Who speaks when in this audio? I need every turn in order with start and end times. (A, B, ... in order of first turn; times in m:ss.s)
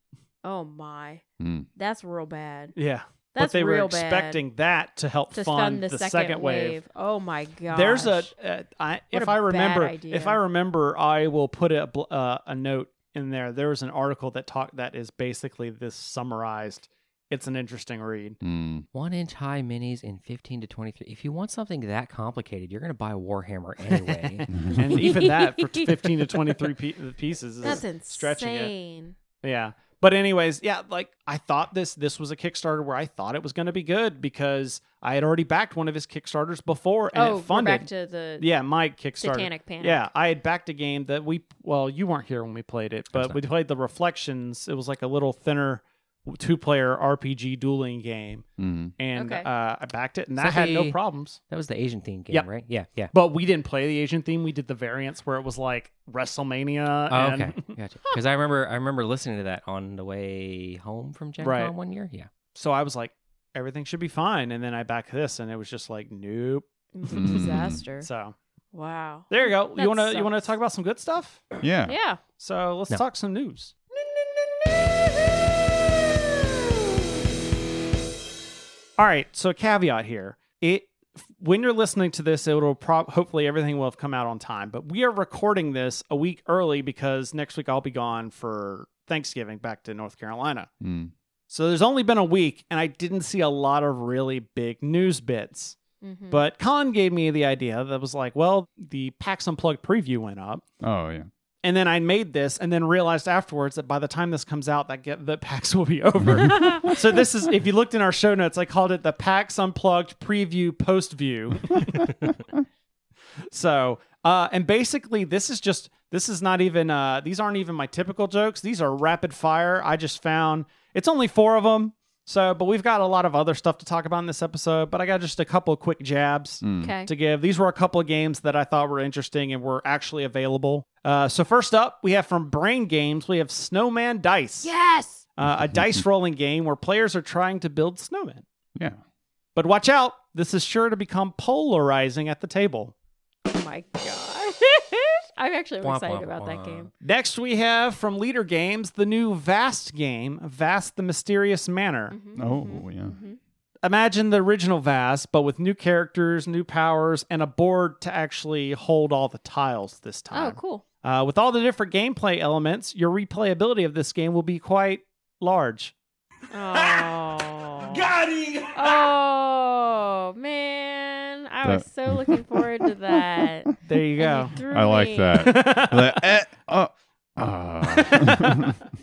0:00.4-0:01.2 A
0:01.4-0:01.7 B
0:01.8-0:02.8 A
0:02.8-0:06.8 C
0:03.4-0:04.4 A
0:05.3-0:08.3 A
0:07.7-0:18.4 C
0:09.1-0:10.4 A
0:18.4-0:18.9 B
0:18.9-0:24.5 D
0:24.2-0:28.7 C
0:25.0-0:25.9 A
0:27.6-0:29.2 A
0:29.4-0:48.5 C
0:37.1-0:38.5 A
0:39.2-0:40.0 A
0:43.1-0:43.4 D
0:48.6-0:49.0 B
0:49.0-0:51.4 C
0:49.2-0:49.5 A
0:50.4-0:51.0 D
0:51.5-0:53.1 D
0:53.1-0:57.8 C
0:57.1-1:02.3 D
1:01.4-1:01.7 C
1:02.5-1:06.7 C
1:06.9-1:08.1 A
1:07.1-1:07.8 B
1:08.0-1:08.4 C
1:08.7-1:10.5 A
1:09.3-1:11.4 C
1:11.6-1:12.0 B
1:11.9-1:12.2 A
1:12.4-1:13.7 C
1:19.0-1:30.7 C
1:30.8-1:31.1 B
1:31.5-1:35.8 C
1:36.0-1:36.4 A
1:36.3-1:40.6 C
1:40.8-1:41.3 B
1:41.6-1:52.2 C
1:46.2-1:46.9 B
1:46.5-1:46.9 A
1:53.5-2:14.7 C
2:06.6-2:06.9 B
2:06.8-2:07.1 A
2:14.6-2:15.2 A
2:15.4-2:18.4 C
2:15.5-2:16.0 B
2:19.6-2:22.9 C
2:23.5-2:26.9 A
2:25.8-2:26.9 D
2:27.0-2:32.2 C
2:32.1-2:33.4 A
2:32.4-2:33.2 B
2:33.8-2:45.9 C
2:40.3-2:40.8 A
2:46.5-2:48.1 A
2:48.7-2:55.6 A
2:51.6-2:52.6 B
2:53.8-2:54.6 C
2:54.7-2:58.8 B
2:55.3-2:56.2 C
2:57.8-2:58.8 C